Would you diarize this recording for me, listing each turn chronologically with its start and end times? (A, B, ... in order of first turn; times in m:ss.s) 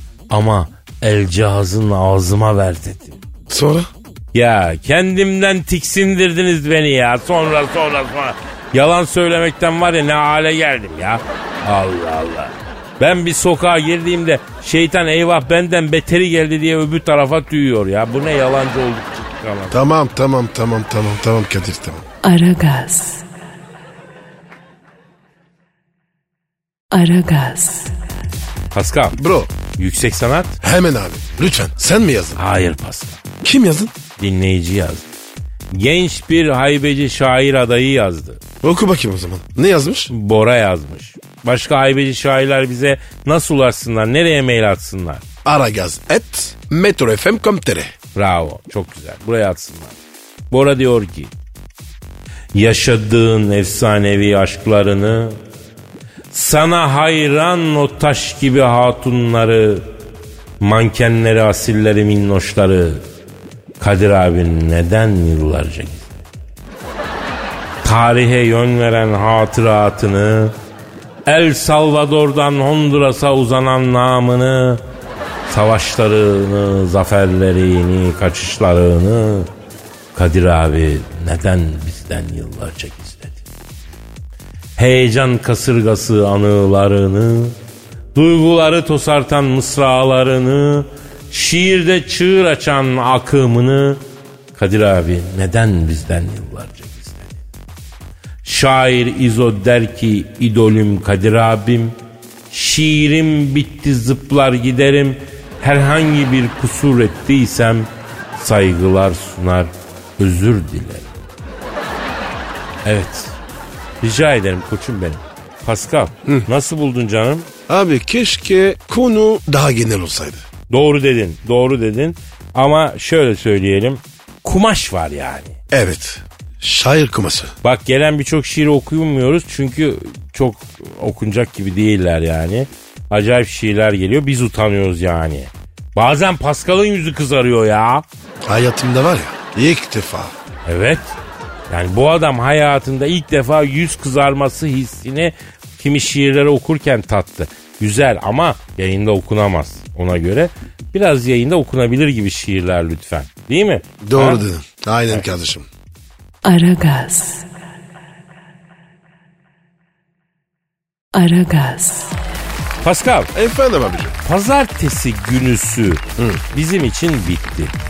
0:00.3-0:03.2 A
0:03.5-0:03.9 B
0:04.3-0:19.8 A
0:19.7-0:22.0 B
0:22.2-0:23.2 C
0:26.9-0:28.0 C
0:28.7-0:29.2 A
0:29.1-0:29.5 B
0:29.7-0:30.6 A
0:30.6-0:32.4 B
0:32.4-0:33.2 A
0:33.4-0:33.9 B
0:34.2-0:35.1 A
0:35.7-0:38.4 A
0:38.6-0:40.1 B
0:40.1-0:45.2 A
0:45.4-0:47.9 B
0:48.1-0:50.0 A
0:50.5-0:51.3 A
0:52.5-0:55.4 A
0:56.3-0:59.9 A
1:00.6-1:03.0 A
1:03.8-1:06.2 A
1:07.8-1:10.6 A
1:11.3-1:14.8 A
1:15.5-1:19.5 A
1:20.1-1:23.4 A
1:24.8-1:27.6 A
1:28.1-1:34.0 A
1:34.6-1:37.4 A
1:38.4-1:42.0 A
1:42.5-1:51.2 A
1:52.8-1:53.4 A
1:54.0-1:57.5 A
1:57.7-2:00.4 B
2:00.7-2:05.6 A
2:05.7-2:07.5 B
2:07.6-2:18.0 A
2:18.5-2:20.3 B
2:20.7-2:21.2 A
2:21.7-2:34.4 A
2:34.0-2:35.7 B
2:36.4-2:37.5 C
2:41.1-2:42.2 C
2:42.8-2:43.3 A
2:43.3-2:44.2 B
2:44.2-2:47.7 A